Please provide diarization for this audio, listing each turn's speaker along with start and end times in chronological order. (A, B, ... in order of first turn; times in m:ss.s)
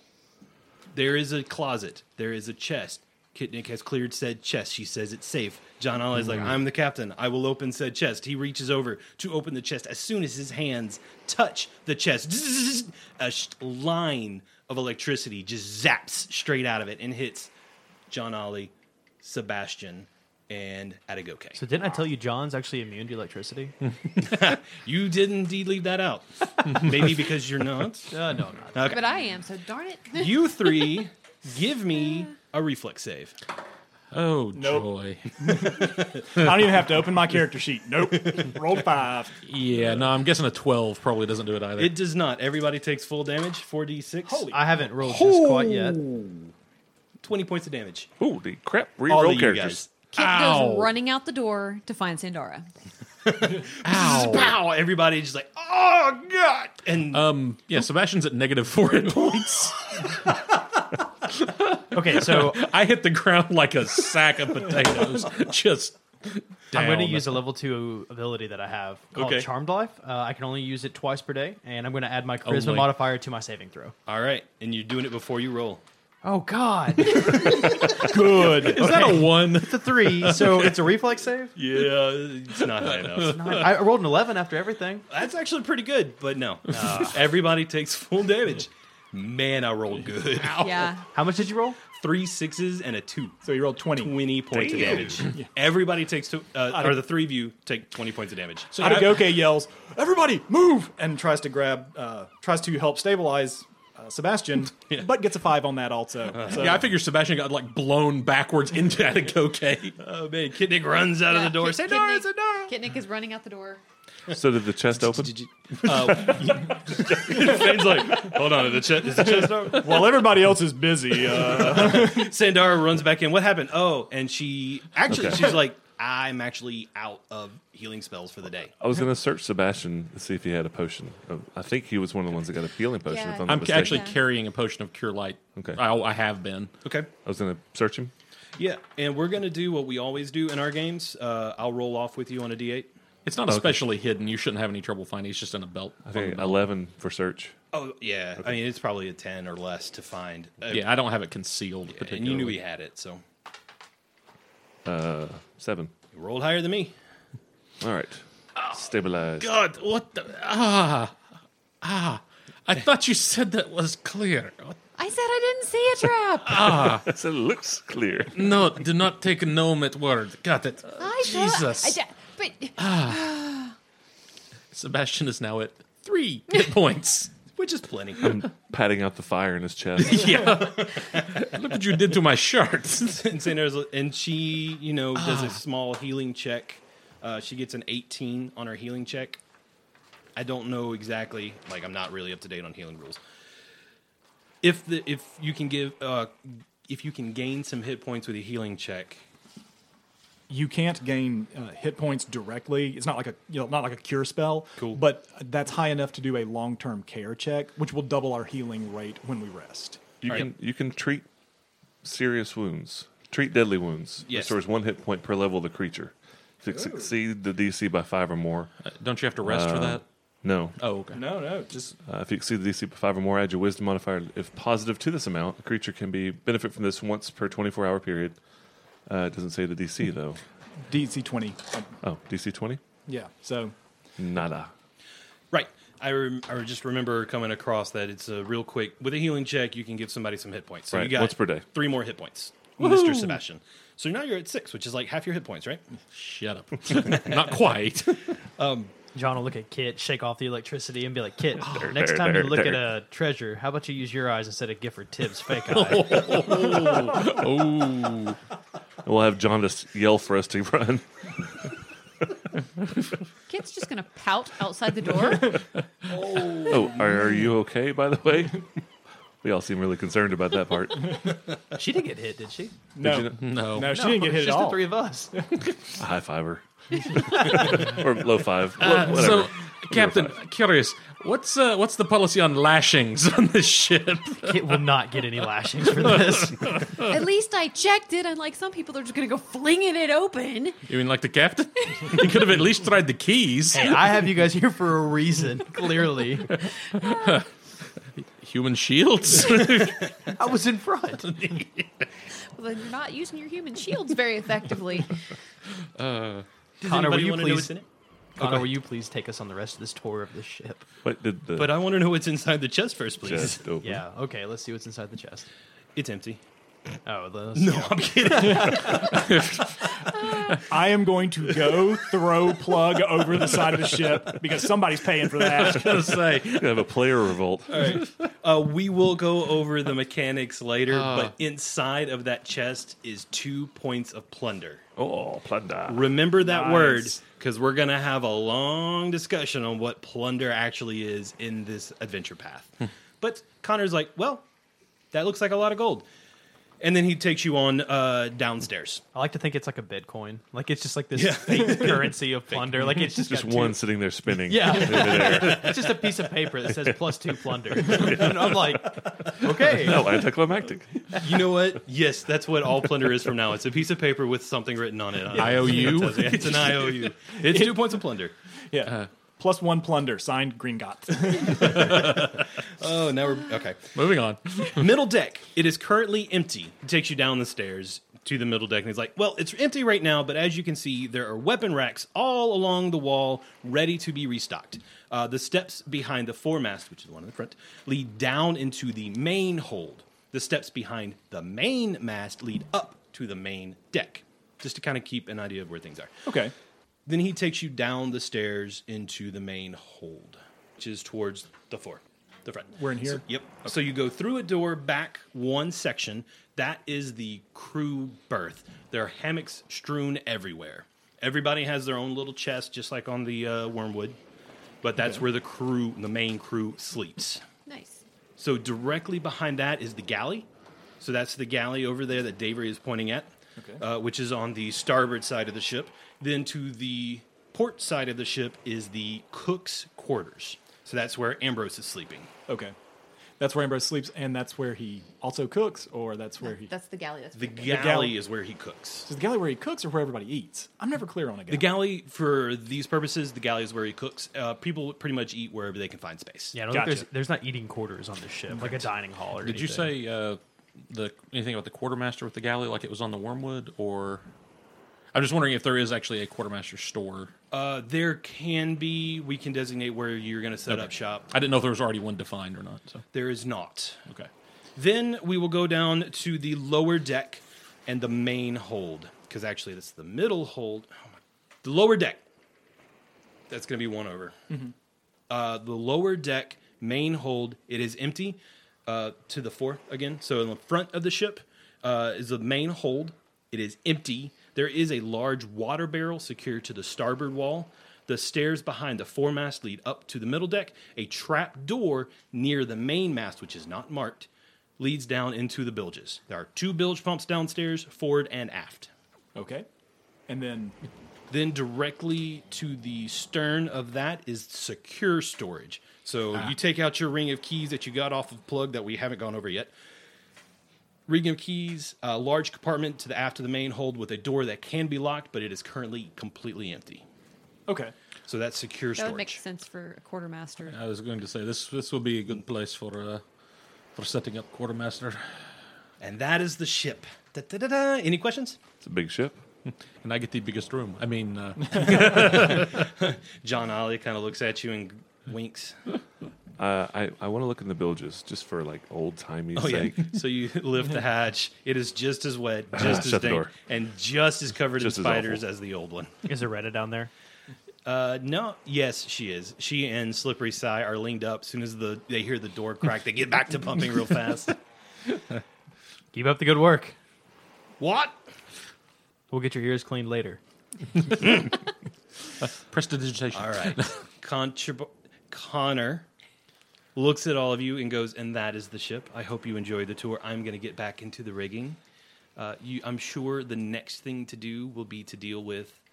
0:00.9-0:17.5 A
0:18.1-0:21.6 A
0:21.5-0:23.7 B
0:23.8-0:24.4 C
0:24.2-0:28.1 A
0:28.1-0:29.0 B
0:28.7-0:29.0 A
0:28.8-0:31.1 D
0:30.2-0:33.4 A
0:34.1-0:35.8 C
0:34.5-0:39.4 E
0:38.2-0:38.5 A
0:39.4-0:42.0 C
0:41.8-0:46.5 A
0:44.2-0:44.6 E
0:44.5-0:46.0 B
0:47.2-0:48.1 A
0:48.2-0:49.9 F
0:49.1-0:49.9 A
0:50.1-0:52.7 D
0:50.1-0:50.9 C
0:53.2-0:57.2 A
0:53.8-0:54.5 C
0:57.1-1:00.2 C
1:01.3-1:07.4 C
1:01.9-1:02.6 B
1:06.7-1:13.9 B
1:09.1-1:09.5 A
1:12.4-1:13.0 C
1:14.0-1:15.8 A
1:16.2-1:17.8 B
1:17.1-1:18.1 A
1:17.8-1:19.2 E
1:18.5-1:20.7 C
1:18.7-1:21.5 B
1:21.6-1:23.7 A
1:22.8-1:23.6 C
1:23.2-1:25.0 B
1:25.1-1:30.9 A
1:26.7-1:27.2 B
1:30.5-1:31.0 D
1:31.0-1:31.8 B
1:31.9-1:39.1 A
1:33.4-1:35.5 E
1:34.5-1:35.2 F
1:36.7-1:37.0 E
1:38.7-1:39.1 C
1:38.8-1:46.9 E
1:46.4-1:46.6 A
1:46.4-1:50.0 C
1:50.0-1:52.7 A
1:51.2-1:53.8 D
1:54.3-1:55.4 F
1:55.0-2:00.2 A
1:57.3-1:58.0 E
1:59.7-2:02.3 E
2:01.2-2:08.7 A
2:05.1-2:05.4 F
2:08.8-2:14.1 F
2:13.0-2:14.2 D
2:13.4-2:16.7 C
2:15.5-2:15.8 F
2:16.8-2:17.1 A
2:17.2-2:18.1 F
2:18.6-2:22.9 A
2:23.2-2:26.6 C
2:23.5-2:23.8 F
2:26.0-2:27.5 F
2:27.7-2:30.9 A
2:30.7-2:32.6 C
2:31.9-2:33.2 A
2:34.8-2:35.9 F
2:36.1-2:36.9 A
2:37.8-2:39.5 F
2:38.6-2:38.9 C
2:39.4-2:41.2 C
2:41.8-2:44.8 C
2:45.0-2:46.9 D
2:46.4-2:47.1 C
2:47.0-2:48.4 F
2:48.3-2:52.0 C
2:50.9-2:53.7 D
2:52.8-2:53.3 C
2:54.7-2:57.3 C
2:57.5-2:58.3 A
2:58.2-3:00.7 F
3:00.0-3:03.4 C
3:03.0-3:09.4 A
3:05.2-3:05.6 C
3:10.4-3:13.2 A
3:14.6-3:19.2 A
3:20.5-3:30.2 E
3:30.2-3:31.3 F
3:32.0-3:38.7 F
3:34.3-3:34.6 A
3:36.6-3:37.1 E
3:38.8-3:40.0 C
3:39.4-3:40.8 F
3:40.8-3:41.2 C
3:41.1-3:41.9 E
3:42.0-3:48.4 F
3:49.1-3:50.4 F
3:50.8-3:52.0 E
3:52.0-3:52.8 F
3:53.1-3:53.7 E
3:54.2-3:54.7 F
3:55.5-4:05.8 A
4:00.9-4:01.6 F
4:02.8-4:03.4 C
4:06.1-4:08.3 C
4:08.6-4:08.9 A
4:09.1-4:16.5 B
4:11.6-4:12.9 F
4:15.7-4:18.4 C
4:19.0-4:21.3 F
4:23.5-4:25.6 D
4:26.3-4:26.9 A
4:26.4-4:28.7 F
4:29.4-4:31.4 F
4:31.7-4:32.7 B
4:32.9-4:35.5 E
4:33.0-4:33.4 F
4:33.3-4:33.9 C
4:33.8-4:35.3 B
4:35.9-4:40.4 F
4:38.8-4:44.7 C
4:44.4-4:46.7 B
4:46.0-4:47.1 C
4:47.0-4:50.8 D
4:50.9-4:54.0 C
4:51.9-4:52.4 D
4:53.7-4:56.5 B
4:56.5-4:57.5 C
4:57.0-4:57.4 D
4:58.2-5:00.3 C
5:00.3-5:01.3 B
5:01.2-5:02.0 C
5:02.5-5:05.2 D
5:05.8-5:06.4 C
5:06.8-5:07.8 A
5:06.8-5:07.7 B
5:08.4-5:10.8 B
5:11.0-5:11.7 F
5:11.6-5:13.6 A
5:13.2-5:14.0 F
5:13.8-5:15.5 B
5:16.0-5:16.4 A
5:17.0-5:19.0 B
5:17.6-5:19.3 A
5:18.4-5:18.8 E
5:19.0-5:20.6 C
5:20.6-5:26.3 E
5:25.4-5:26.9 C
5:26.3-5:28.0 F
5:27.7-5:34.8 A
5:27.8-5:28.1 C
5:30.9-5:31.3 C
5:35.0-5:36.1 F
5:35.9-5:44.4 A
5:36.4-5:37.2 E
5:45.1-5:46.1 A
5:46.8-5:49.0 A
5:49.1-5:53.8 B
5:51.2-5:52.9 A
5:53.0-5:55.8 F
5:54.4-6:00.2 B
5:54.6-5:56.0 A
5:57.9-6:01.2 F
6:01.2-6:08.3 A
6:05.3-6:07.1 C
6:07.4-6:08.0 E
6:08.7-6:12.2 E
6:11.7-6:13.9 A
6:11.8-6:12.3 C
6:13.9-6:15.0 C
6:14.6-6:36.2 A
6:36.2-6:36.5 E
6:37.1-6:54.2 A
6:42.8-6:43.2 E
6:54.8-6:57.4 A
6:57.7-6:58.0 D
6:58.4-7:00.5 A
7:01.0-7:12.3 A
7:12.5-7:12.7 E
7:13.4-7:16.7 E
7:16.4-7:17.9 D
7:17.3-7:19.1 A
7:17.7-7:18.2 E
7:19.0-7:21.7 E
7:21.5-7:26.6 A
7:26.5-7:29.9 B
7:26.7-7:27.0 E
7:28.5-7:28.8 E
7:29.4-7:34.2 C
7:35.1-7:37.3 C
7:37.5-7:41.3 A
7:40.7-7:43.0 C
7:43.1-7:44.0 A
7:44.8-7:52.2 A
7:53.5-7:54.6 A
7:55.3-8:14.3 A
8:14.8-8:18.9 A
8:19.3-8:19.7 E
8:20.3-8:20.8 E
8:21.3-8:29.7 A
8:31.1-8:37.0 A
8:37.7-8:37.9 E
8:38.3-8:39.4 A
8:39.0-8:40.8 D
8:40.7-8:43.2 C
8:43.9-8:45.4 C
8:46.0-8:48.6 A
8:48.8-8:49.4 F
8:49.6-8:52.8 C
8:51.8-8:55.8 A
8:56.6-9:00.2 F
8:59.5-9:06.1 A
9:02.7-9:03.5 F
9:04.8-9:05.4 F
9:06.2-9:07.1 B
9:07.8-9:14.6 A
9:16.1-9:16.9 B
9:17.8-9:18.2 A
9:19.3-9:20.4 B
9:21.1-9:21.5 C
9:21.2-9:21.5 A
9:22.6-9:24.0 C
9:23.3-9:26.1 A
9:26.9-9:31.8 A
9:32.4-9:35.8 A